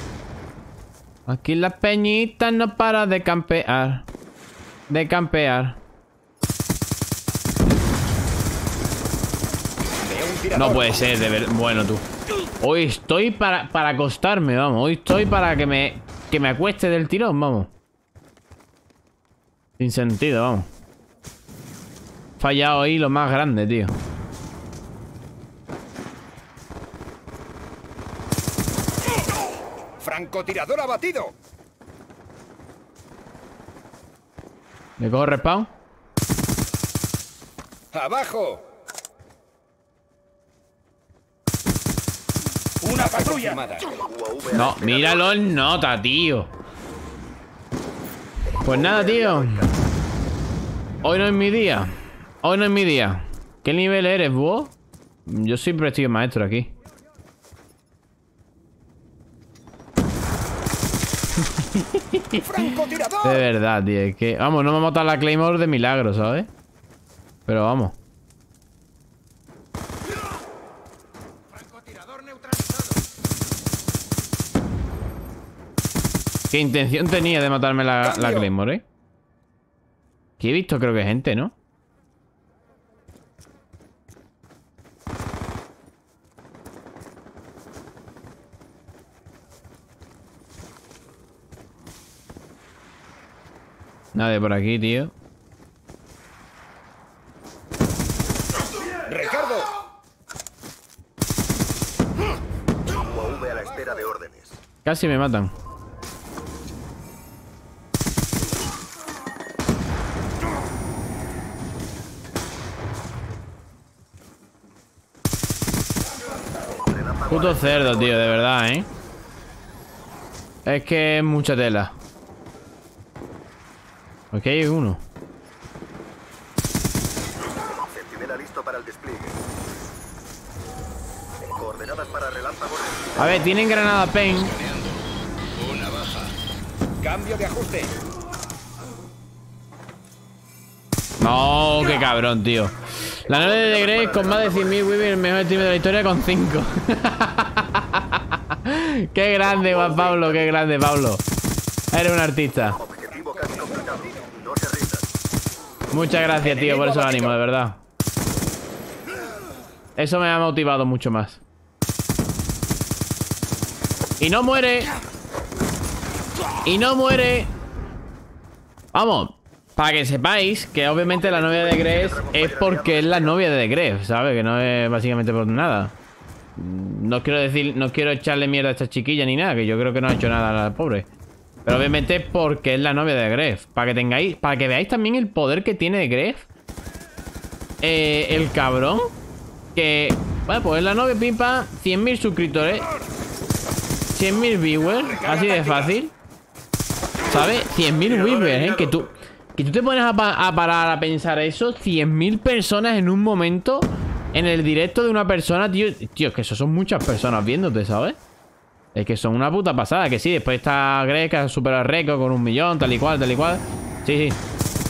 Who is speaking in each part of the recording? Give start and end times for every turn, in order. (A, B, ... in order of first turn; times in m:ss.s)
0:01.3-0:04.1 A
0:04.9-0:05.8 A
0:10.0-0:10.9 B
0:10.5-0:12.0 A
0:12.6-0:17.7 A
0:19.8-0:20.7 A
0:22.4-0:23.9 A
0:30.0-0:31.3 B
0:35.0-0:35.7 A
0:37.9-0:38.6 B
0:42.8-0:43.9 B
0:43.9-0:45.4 C
0:44.5-0:46.5 A
0:48.6-0:49.6 A
0:48.6-0:49.8 C
0:51.0-0:54.7 A
0:55.3-0:56.7 A
1:01.4-1:06.5 A
1:02.4-1:03.4 B
1:07.5-1:08.0 A
1:11.5-1:13.0 B
1:16.5-1:18.8 A
1:18.0-1:18.5 B
1:20.4-1:21.5 A
1:34.2-1:35.1 A
1:39.1-1:39.7 B
1:42.9-1:44.6 C
1:44.8-1:45.5 A
1:56.7-1:58.5 C
1:57.3-1:58.9 A
2:00.6-2:01.9 A
2:04.3-2:05.0 A
2:07.7-2:09.4 C
2:11.5-2:13.5 C
2:13.2-2:14.6 A
2:15.6-2:16.1 B
2:17.0-2:18.0 B
2:21.2-2:31.2 A
2:23.3-2:24.7 C
2:29.5-2:30.5 C
2:31.9-2:32.8 A
2:32.6-2:35.1 C
2:33.1-2:34.1 B
2:35.9-2:37.8 A
2:36.6-2:37.2 B
2:40.0-2:41.4 A
2:44.2-2:44.9 A
2:46.6-2:47.5 A
2:48.9-2:55.9 A
2:51.0-2:53.4 C
2:56.6-3:01.1 A
3:01.7-3:06.5 A
3:07.8-3:09.1 A
3:09.8-3:12.9 A
3:14.1-3:16.1 A
3:15.2-3:15.8 B
3:17.3-3:28.2 A
3:29.0-3:34.4 A